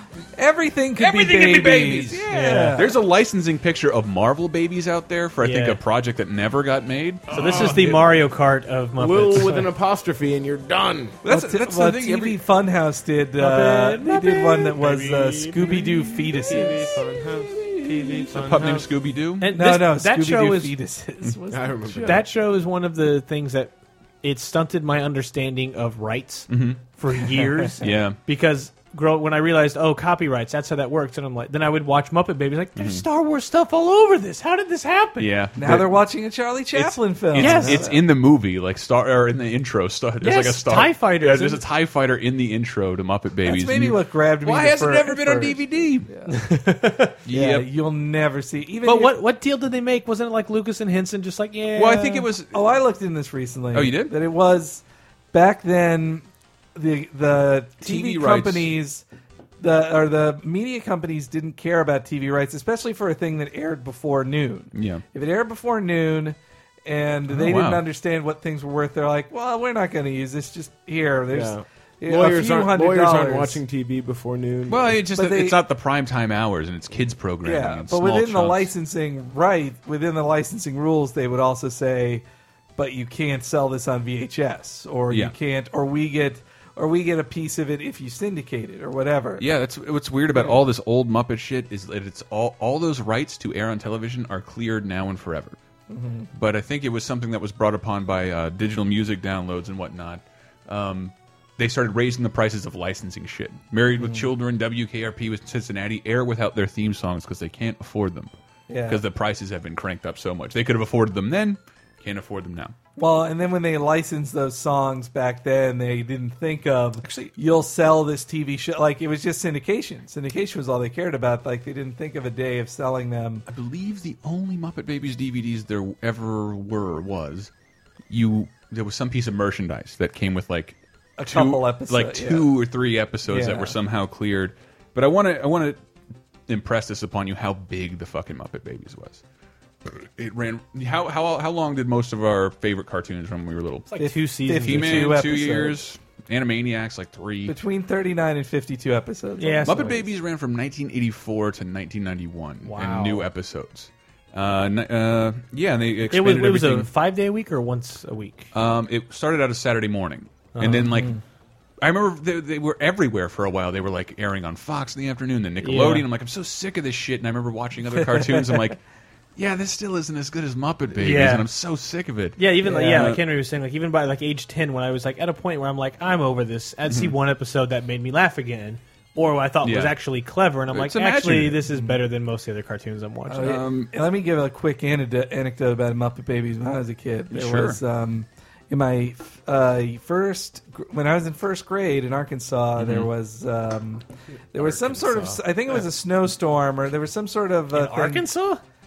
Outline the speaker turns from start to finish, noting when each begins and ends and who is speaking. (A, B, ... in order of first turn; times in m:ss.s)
0:00.4-0:03.0 A
0:01.0-0:08.0 B
0:02.3-0:02.8 C
0:05.4-0:05.8 C
0:07.3-0:09.7 C
0:07.3-0:08.0 D
0:09.0-0:11.2 D
0:11.2-0:17.0 A
0:11.2-0:12.4 B
0:13.4-0:14.8 C
0:14.8-0:18.9 D
0:17.8-0:18.4 A
0:18.4-0:19.5 B
0:19.4-0:20.7 C
0:19.5-0:22.3 A
0:21.5-0:22.3 D
0:22.0-0:35.3 C
0:26.5-0:26.8 B
0:27.8-0:28.2 B
0:32.8-0:33.0 B
0:35.2-0:36.0 B
0:35.6-0:38.0 A
0:36.7-0:46.1 B
0:37.3-0:37.8 C
0:40.2-0:41.6 C
0:43.4-0:46.3 A
0:46.3-0:47.2 C
0:47.2-0:47.7 B
0:47.3-0:49.2 A
0:48.8-0:52.3 C
0:51.8-0:52.6 B
0:52.5-0:59.0 A
0:53.7-0:54.2 B
0:57.8-0:58.7 B
0:59.6-1:13.6 A
1:04.7-1:05.0 B
1:07.3-1:07.8 B
1:11.3-1:15.0 D
1:14.7-1:18.7 B
1:15.1-1:15.6 A
1:17.4-1:22.2 A
1:22.8-1:29.4 A
1:25.1-1:25.3 B
1:29.4-1:35.6 B
1:35.9-1:36.3 A
1:36.3-1:48.3 B
1:44.0-1:44.3 A
1:48.7-1:49.0 A
1:48.8-1:52.7 B
1:53.0-2:03.4 A
2:03.5-2:07.5 B
2:08.1-2:15.8 B
2:11.2-2:12.5 A
2:13.3-2:13.8 A
2:16.5-2:19.2 B
2:19.8-2:23.9 B
2:23.9-2:25.2 C
2:24.0-2:25.8 A
2:24.6-2:27.6 B
2:27.5-2:30.1 A
2:29.4-2:30.0 C
2:29.6-2:36.9 B
2:32.6-2:33.3 C
2:36.1-2:38.5 C
2:38.5-2:41.1 B
2:40.5-2:40.9 C
2:40.9-2:41.2 A
2:41.8-2:48.8 B
2:45.6-2:46.1 C
2:48.2-2:48.6 A
2:49.4-2:53.2 B
2:51.0-2:51.5 C
2:52.4-3:03.5 C
2:52.6-2:53.1 A
2:56.9-2:57.1 B
2:59.6-2:59.9 B
3:00.7-3:01.6 B
3:01.7-3:02.0 A
3:03.3-3:18.2 A
3:03.4-3:03.9 B
3:07.3-3:07.8 B
3:12.8-3:13.1 B
3:14.5-3:15.4 D
3:17.7-3:18.6 C